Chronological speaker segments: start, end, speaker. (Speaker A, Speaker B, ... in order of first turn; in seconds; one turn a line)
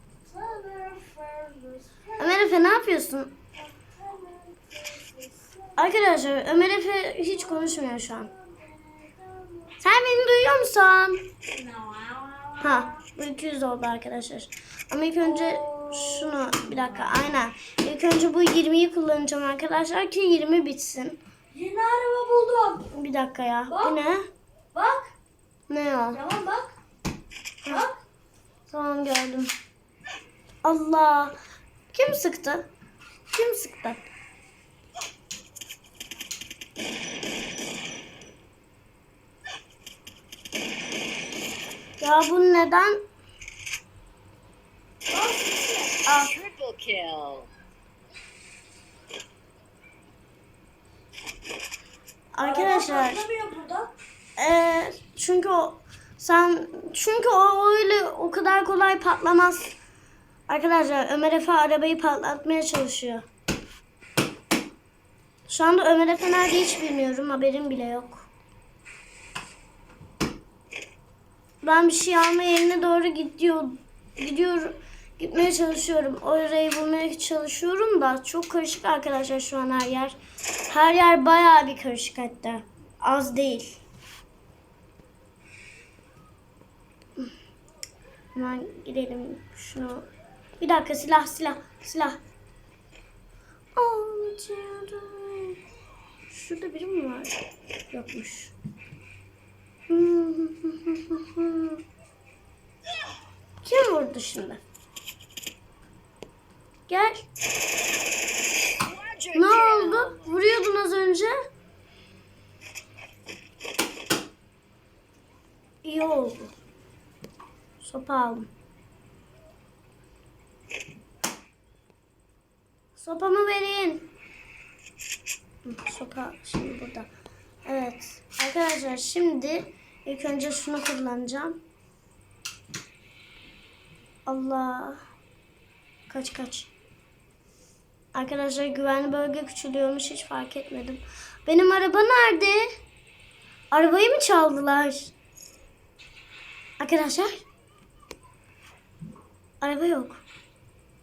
Speaker A: 0.3-2.5
Speaker B: 2.2-3.4
Speaker A: 3.6-5.8
Speaker B: 5.8-8.3
Speaker A: 8.4-9.7
Speaker B: 9.8-11.3
Speaker A: 11.5-12.9
Speaker B: 12.6-21.2
Speaker A: 15.2-16.5
Speaker A: 21.5-22.9
Speaker B: 22.9-24.3
Speaker A: 23.7-24.0
Speaker A: 24.7-25.1
Speaker B: 25.7-26.2
Speaker A: 26.1-26.8
Speaker A: 27.7-28.0
Speaker B: 28.7-29.5
Speaker B: 30.6-31.4
Speaker B: 31.9-32.7
Speaker B: 33.3-34.0
Speaker B: 42.0-43.0
Speaker A: 45.1-46.0
Speaker B: 46.1-46.3
Speaker C: 46.3-47.5
Speaker B: 52.3-53.2
Speaker A: 52.4-53.9
Speaker B: 54.4-59.7
Speaker B: 60.5-63.2
Speaker B: 65.5-68.3
Speaker B: 71.6-80.2
Speaker B: 80.7-83.8
Speaker B: 88.3-90.1
Speaker B: 90.6-92.2
Speaker B: 93.8-95.6
Speaker B: 96.3-97.4
Speaker B: 97.9-98.5
Speaker B: 99.9-101.8
Speaker B: 103.6-104.6
Speaker B: 106.9-107.3
Speaker C: 108.8-110.3
Speaker B: 109.3-111.3
Speaker B: 115.8-116.5
Speaker B: 117.8-118.5
Speaker B: 123.0-124.1
Speaker B: 125.6-127.1
Speaker B: 127.7-131.6
Speaker B: 134.3-135.0
Speaker B: 136.1-136.7
Speaker B: 138.1-142.7
Speaker B: 143.7-145.1
Speaker B: 146.8-147.4
Speaker B: 149.6-150.2